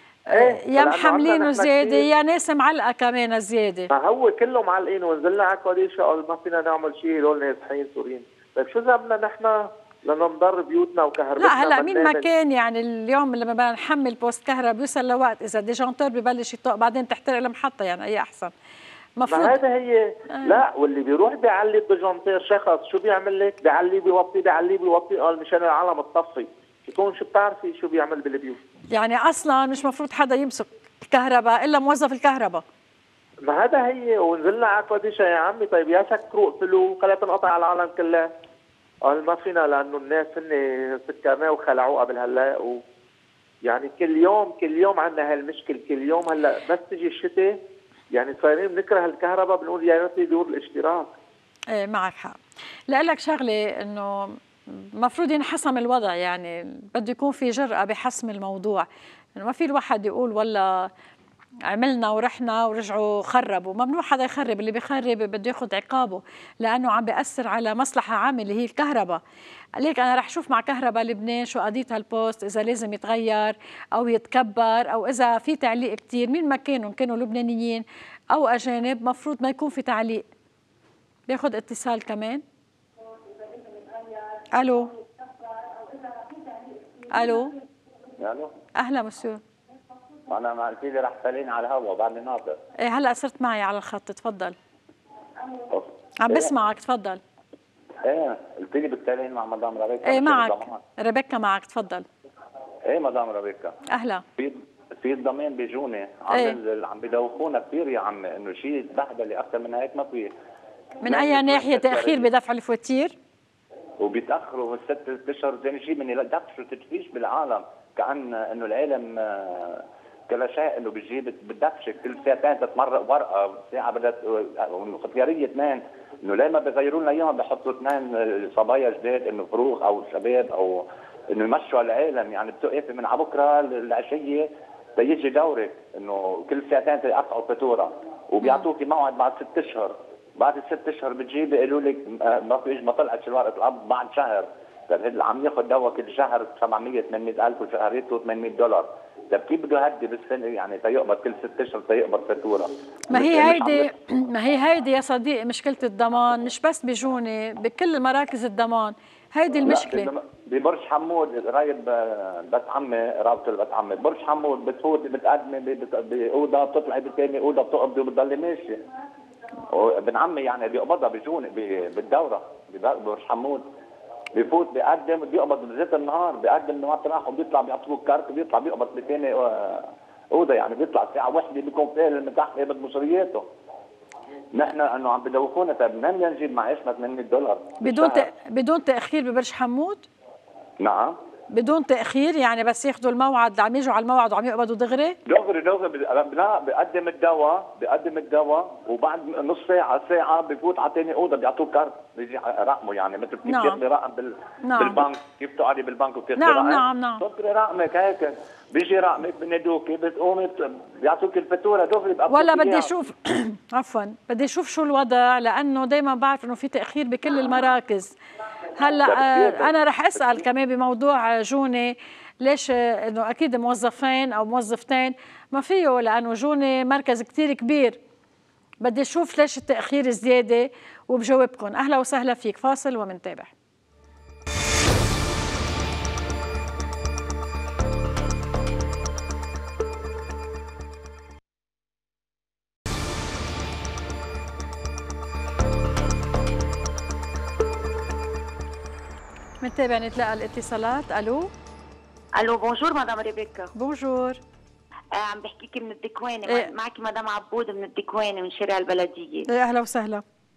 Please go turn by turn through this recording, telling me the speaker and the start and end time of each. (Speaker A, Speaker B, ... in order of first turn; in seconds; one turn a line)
Speaker A: 0.3-3.9
Speaker B: 0.3-2.0
Speaker B: 3.9-12.3
Speaker A: 11.4-18.5
Speaker A: 19.2-19.6
Speaker B: 19.3-28.6
Speaker A: 20.3-20.6
Speaker A: 28.9-32.6
Speaker B: 33.5-38.3
Speaker B: 39.0-42.8
Speaker B: 43.6-47.6
Speaker B: 48.1-51.1
Speaker A: 51.7-52.4
Speaker A: 52.9-60.9
Speaker A: 61.7-69.2
Speaker A: 69.8-80.2
Speaker A: 81.3-82.4
Speaker A: 84.5-85.0
Speaker A: 87.1-87.5
Speaker C: 88.2-88.5
Speaker A: 88.8-89.4
Speaker C: 90.3-92.6
Speaker A: 92.8-94.5
Speaker C: 95.7-96.5
Speaker A: 96.2-97.2
Speaker C: 98.0-100.8
Speaker A: 100.0-102.0
Speaker C: 102.8-103.8
Speaker A: 103.9-104.2
Speaker C: 104.4-110.3
Speaker A: 106.3-106.6
Speaker A: 111.0-113.1
Speaker C: 111.0-112.2
Speaker C: 114.0-153.9
Speaker A: 153.1-160.1
Speaker C: 159.6-168.8
Speaker C: 169.6-173.7
Speaker C: 174.3-183.5
Speaker C: 184.5-188.3
Speaker A: 187.8-190.1
Speaker C: 190.8-191.2
Speaker A: 191.5-195.2
Speaker C: 195.2-212.9
Speaker A: 203.5-203.8
Speaker A: 204.6-205.0
Speaker A: 206.4-207.2
Speaker A: 212.3-218.2
Speaker A: 218.8-228.0
Speaker C: 219.0-220.4
Speaker A: 228.8-233.5
Speaker A: 249.6-251.5
Speaker D: 252.4-253.7
Speaker A: 253.8-254.4
Speaker D: 255.1-259.5
Speaker A: 259.5-260.2